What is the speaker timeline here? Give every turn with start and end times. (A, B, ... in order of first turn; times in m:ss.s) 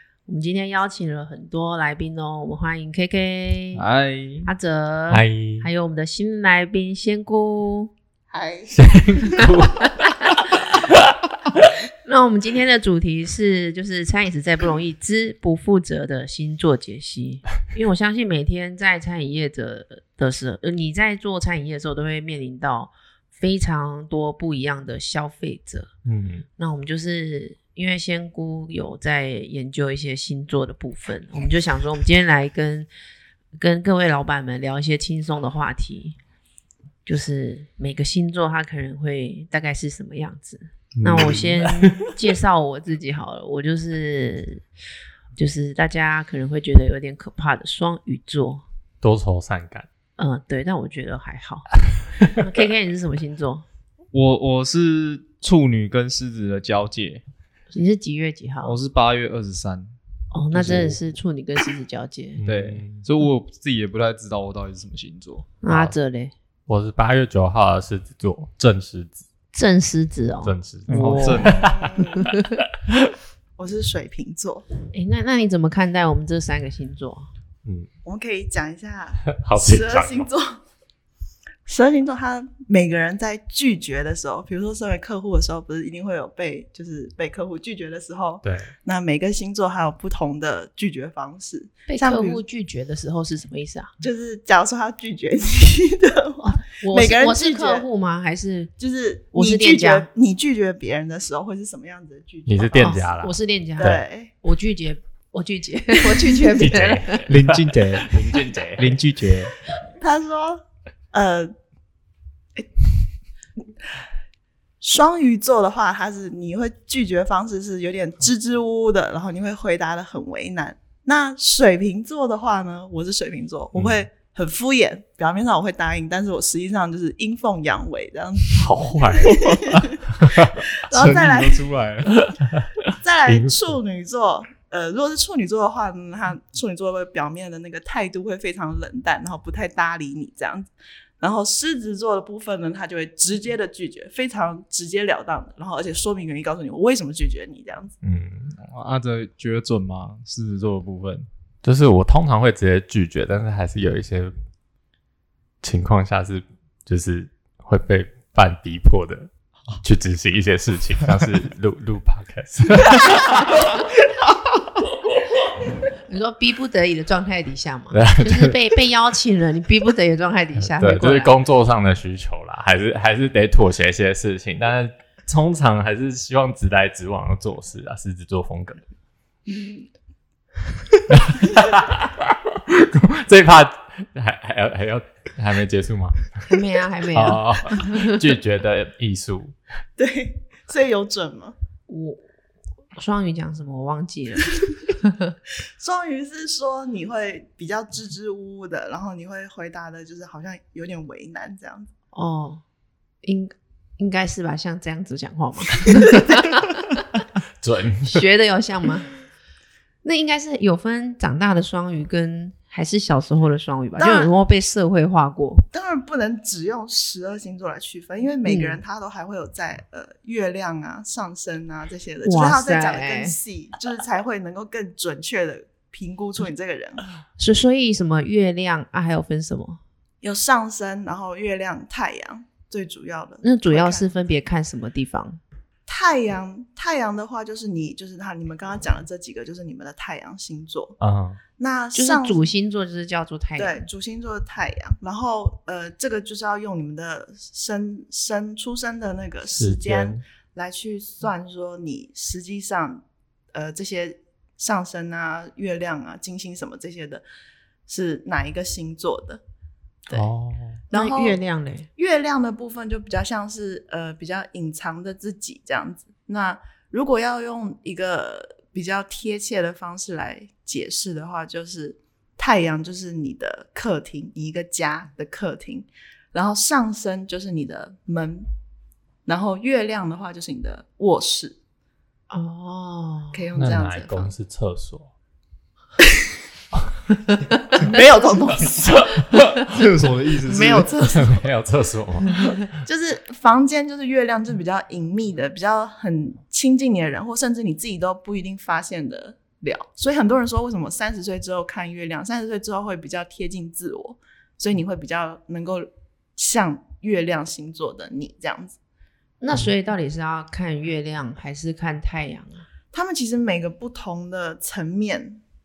0:00.2-0:03.8 A
0:03.7-0:04.5 B
0:04.4-0:07.9 A
0:05.1-0:05.7 C
0:08.3-0:08.7 D
0:08.7-0:10.0 C
0:12.0-0:25.9 A
0:26.0-0:26.5 C
0:26.6-0:32.9 A
0:33.6-0:36.2 A
0:37.0-0:44.6 A
0:40.9-0:42.1 C
0:45.4-0:48.6 A
0:49.0-0:49.9 C
0:50.2-0:51.7 A
0:52.2-0:53.6 A
0:54.1-0:57.2 B
0:57.7-0:58.8 A
0:58.6-1:00.0 B
1:00.3-1:02.4 A
1:00.5-1:01.0 B
1:02.4-1:03.0 C
1:02.4-1:05.5 B
1:05.6-1:06.3 A
1:05.7-1:05.9 C
1:06.7-1:09.2 C
1:09.5-1:11.6 A
1:10.4-1:11.9 C
1:10.9-1:11.8 B
1:11.6-1:12.2 D
1:12.1-1:12.6 A
1:13.6-1:14.6 D
1:14.9-1:17.3 A
1:18.0-1:20.6 D
1:19.3-1:20.3 C
1:21.7-1:32.4 D
1:28.4-1:28.7 C
1:31.9-1:33.9 A
1:34.0-1:37.8 D
1:36.4-1:38.7 A
1:38.8-1:43.1 D
1:39.3-1:40.0 A
1:42.4-1:44.0 C
1:42.8-1:47.3 A
1:43.8-1:44.3 D
1:46.0-1:46.7 D
1:46.6-1:49.0 C
1:47.3-1:48.1 B
1:48.8-1:49.5 B
1:50.0-1:51.5 D
1:54.8-2:11.6 D
2:08.5-2:09.5 C
2:09.3-2:09.8 B
2:10.2-2:11.2 C
2:10.9-2:12.3 B
2:12.2-2:13.7 C
2:13.0-2:20.7 D
2:21.2-2:28.0 D
2:28.0-2:28.6 C
2:28.6-2:31.3 B
2:31.6-2:34.3 C
2:35.6-2:39.3 C
2:39.8-2:43.6 C
2:46.1-2:51.3 A
2:47.9-2:48.6 C
2:50.6-2:58.8 C
2:59.5-2:59.9 D
3:01.1-3:06.6 C
3:06.5-3:08.2 A
3:07.1-3:09.6 C
3:10.0-3:11.6 D
3:11.9-3:12.2 A
3:13.0-3:15.3 A
3:15.8-3:21.9 D
3:22.1-3:22.6 A
3:23.2-3:27.0 A
3:27.6-3:28.2 C
3:28.0-3:29.1 A
3:30.0-3:35.7 A
3:34.0-3:34.3 D
3:35.7-3:47.0 D
3:38.4-3:38.8 A
3:42.2-3:43.4 A
3:47.4-3:49.8 A
3:50.2-3:54.1 D
3:53.4-3:55.4 A
3:55.9-4:01.0 D
4:01.0-4:01.4 C
4:01.6-4:02.4 D
4:01.9-4:03.8 A
4:03.6-4:17.2 D
4:09.6-4:10.2 C
4:17.9-4:19.4 D
4:20.1-4:20.8 C
4:20.9-4:21.4 D
4:20.9-4:21.9 A
4:22.0-4:38.5 D
4:39.2-4:41.6 D
4:42.3-4:43.5 A
4:43.3-4:44.3 D
4:43.6-4:45.1 C
4:47.8-4:49.1 D
4:49.6-4:50.9 B
4:50.4-4:51.4 D
4:51.0-4:52.6 C
4:52.8-5:08.8 D
5:09.4-5:12.7 A
5:12.9-5:15.4 D